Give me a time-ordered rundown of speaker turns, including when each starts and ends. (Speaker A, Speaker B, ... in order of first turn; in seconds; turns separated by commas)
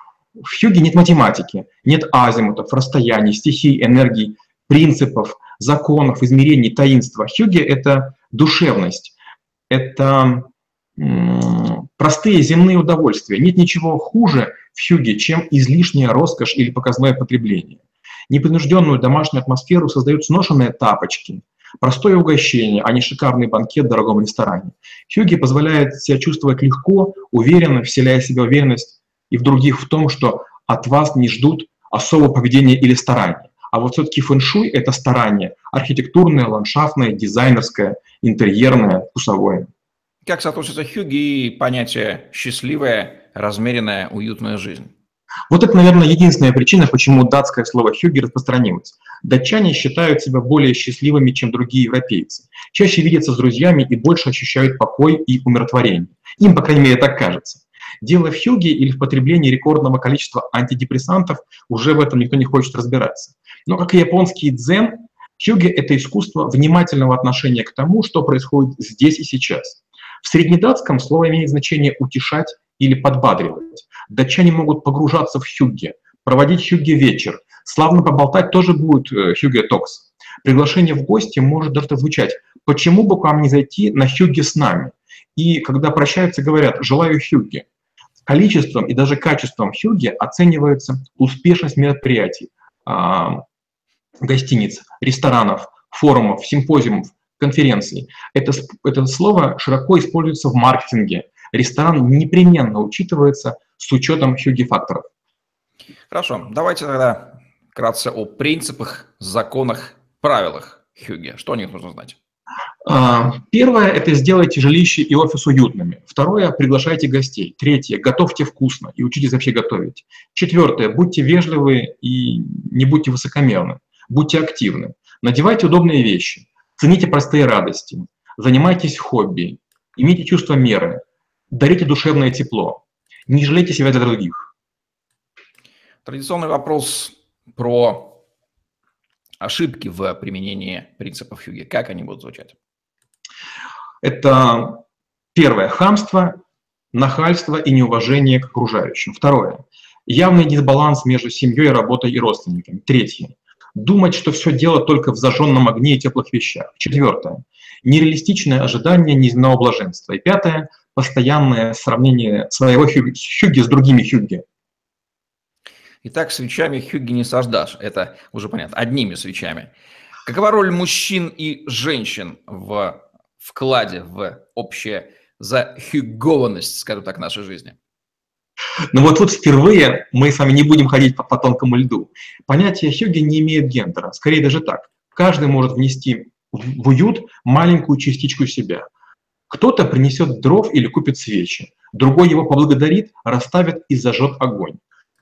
Speaker A: 0.4-9.1, Speaker A: 9.7-39.7, Speaker B: 40.2-44.9, Speaker A: 45.5-87.6, Speaker A: 88.2-93.4, Speaker A: 94.2-105.0, Speaker B: 106.1-112.2, Speaker A: 112.8-134.4, Speaker B: 136.0-138.2, Speaker B: 139.4-142.6, Speaker A: 144.0-144.8, Speaker A: 145.3-146.3, Speaker A: 146.9-164.4, Speaker B: 166.0-169.7, Speaker B: 170.2-177.8, Speaker A: 178.9-188.8, Speaker A: 189.5-194.8